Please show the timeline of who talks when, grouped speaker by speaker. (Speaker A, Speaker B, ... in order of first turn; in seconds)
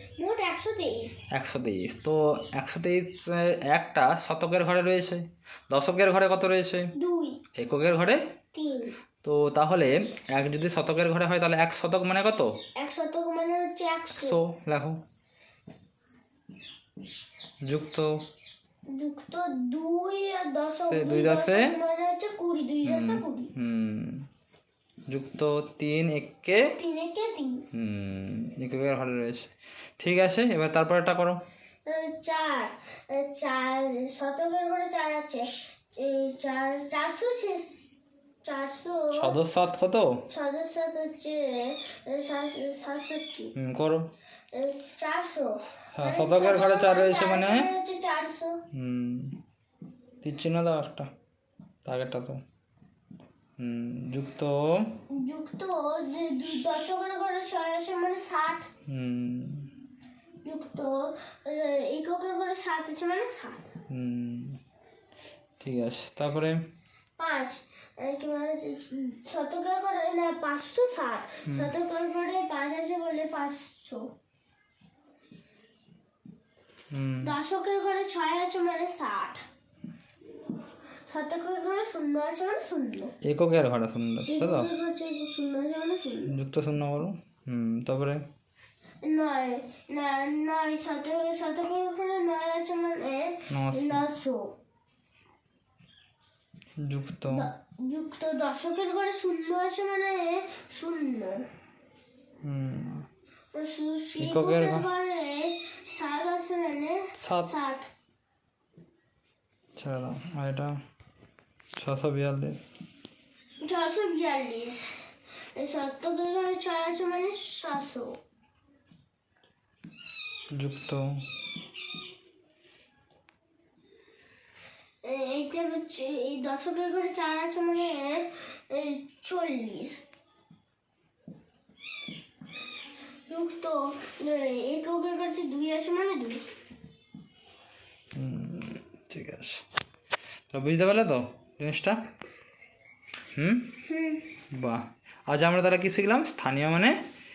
Speaker A: 0.2-1.2, 7.0-7.4, 8.5-9.0, 12.8-14.4, 18.9-23.5, 26.8-27.6, 31.8-37.9, 38.4-39.3, 40.3-43.5, 44.5-48.6, 55.1-58.7, 60.4-63.7, 67.2-74.1, 77.2-79.4, 81.1-83.1, 84.2-86.3, 89.0-94.5, 97.3-101.5, 103.5-107.9, 113.6-114.8, 115.5-118.2, 125.0-130.0, 133.3-136.5, 143.9-144.3
Speaker B: 1.3-6.9, 7.5-8.2, 9.2-12.5, 14.2-15.0, 17.7-18.1, 20.9-21.7, 22.8-24.3, 25.1-26.6, 27.8-29.5, 30.0-31.4, 39.2-40.2, 43.5-44.0, 46.0-47.7, 48.7-49.3, 50.2-51.0, 51.9-52.4, 53.6-54.5, 58.9-59.7, 63.9-64.6, 65.6-66.5, 71.5-71.7, 76.9-77.3, 83.2-84.7, 86.3-88.2, 93.5-94.0, 96.8-97.5, 102.4-103.0, 104.2-104.8, 107.2-107.5, 109.8-110.7, 111.8-112.6, 120.5-121.1, 138.2-139.6, 140.5-142.0, 143.4-143.7, 144.5-147.0